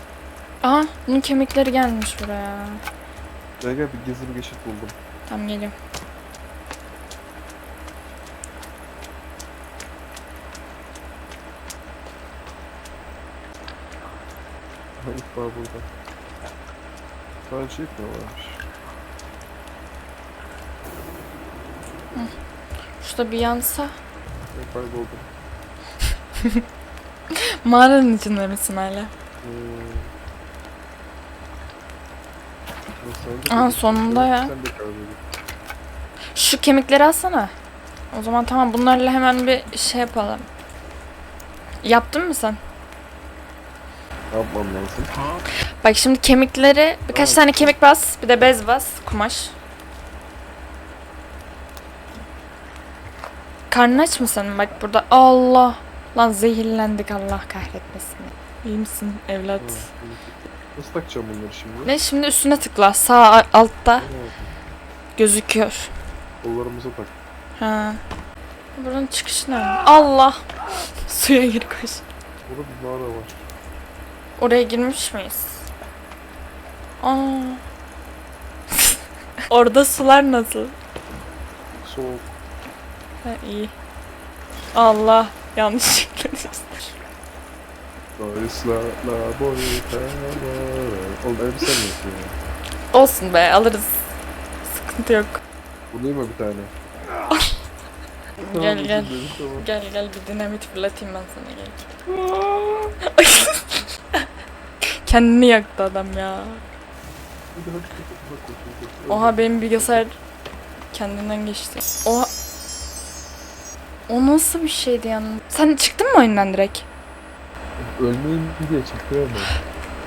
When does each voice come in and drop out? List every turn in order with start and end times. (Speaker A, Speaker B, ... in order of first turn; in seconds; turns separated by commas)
Speaker A: 0.6-2.8, Speaker B: 3.6-4.9, Speaker A: 5.3-5.7, Speaker B: 15.0-15.9, Speaker B: 17.5-18.6, Speaker A: 23.0-23.9, Speaker B: 24.5-25.3, Speaker A: 27.3-29.1, Speaker B: 29.4-30.1, Speaker B: 33.0-35.2, Speaker A: 33.5-34.5, Speaker A: 36.3-37.5, Speaker A: 38.1-40.5, Speaker A: 41.8-42.6, Speaker B: 44.3-45.1, Speaker A: 45.8-49.5, Speaker B: 47.1-47.7, Speaker A: 53.7-59.9, Speaker B: 59.6-61.9, Speaker A: 61.8-64.1, Speaker B: 64.0-64.5, Speaker A: 65.2-65.9, Speaker B: 66.4-67.1, Speaker A: 67.6-68.0, Speaker A: 68.8-70.4, Speaker A: 71.0-72.0, Speaker B: 72.4-73.4, Speaker A: 74.4-75.7, Speaker A: 77.0-77.6, Speaker A: 79.5-80.7, Speaker B: 81.8-82.3, Speaker A: 83.2-83.7, Speaker A: 84.7-86.9, Speaker B: 88.2-92.3, Speaker A: 92.9-94.1, Speaker A: 94.6-95.4, Speaker B: 95.9-96.7, Speaker A: 98.4-101.8, Speaker B: 98.4-99.7, Speaker B: 102.1-102.9, Speaker A: 103.0-104.2, Speaker A: 104.9-106.6, Speaker B: 107.5-110.0, Speaker A: 109.1-110.2, Speaker A: 110.9-112.3, Speaker A: 114.1-116.8, Speaker B: 117.8-119.5